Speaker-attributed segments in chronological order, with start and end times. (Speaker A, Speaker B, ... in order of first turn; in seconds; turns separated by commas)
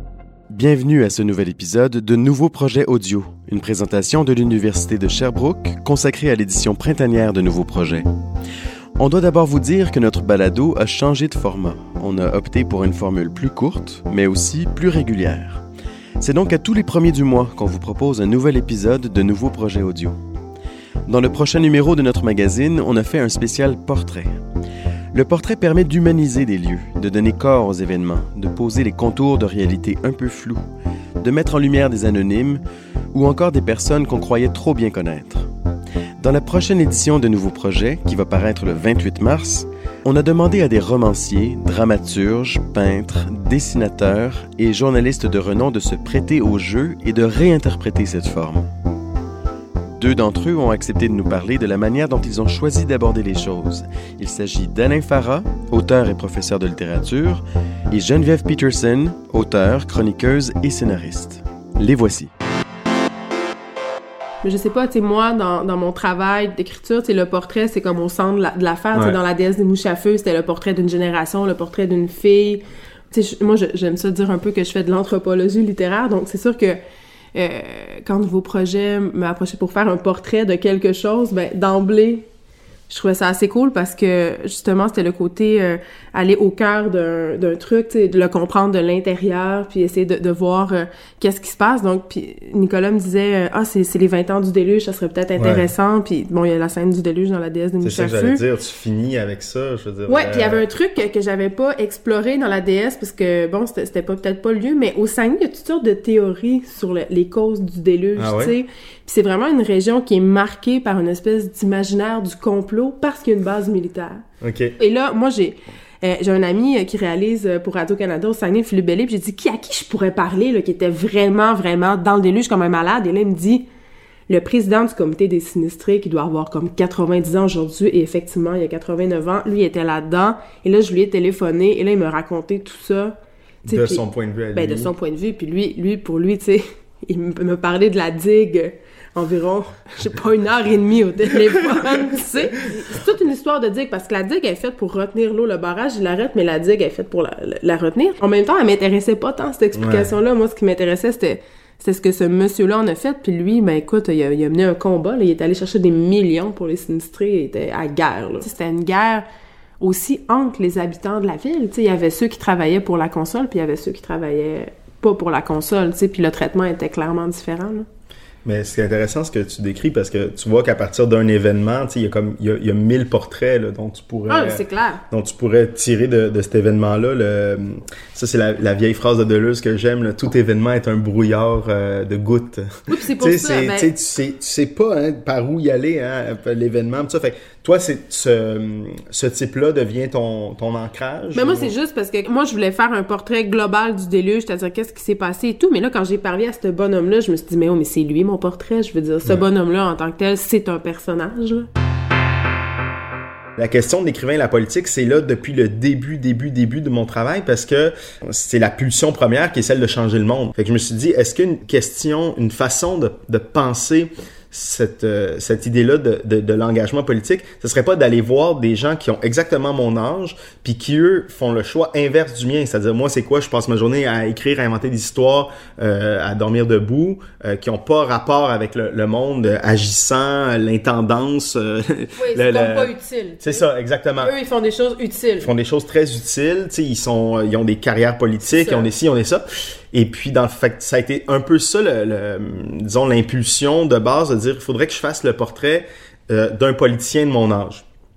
Speaker A: 0.5-8.1, Speaker A: 9.0-15.6, Speaker A: 16.2-20.2, Speaker A: 21.1-24.3, Speaker A: 25.1-30.6, Speaker A: 31.2-35.5, Speaker A: 36.2-48.7, Speaker A: 49.9-62.3, Speaker B: 64.4-76.8, Speaker B: 77.3-82.3, Speaker B: 82.9-98.4, Speaker C: 95.4-95.7, Speaker C: 97.8-100.6, Speaker B: 100.1-114.2, Speaker C: 108.2-108.5, Speaker C: 114.4-114.8, Speaker B: 114.8-123.7, Speaker B: 124.3-133.2, Speaker C: 133.7-134.9, Speaker B: 133.7-159.2, Speaker C: 149.8-150.1, Speaker B: 159.8-167.9, Speaker C: 168.4-191.7, Speaker B: 174.3-175.0, Speaker B: 182.9-183.9, Speaker B: 191.3-201.7, Speaker C: 203.6-234.3, Speaker B: 232.2-233.7, Speaker B: 234.2-235.5, Speaker C: 235.4-247.8, Speaker B: 238.5-238.9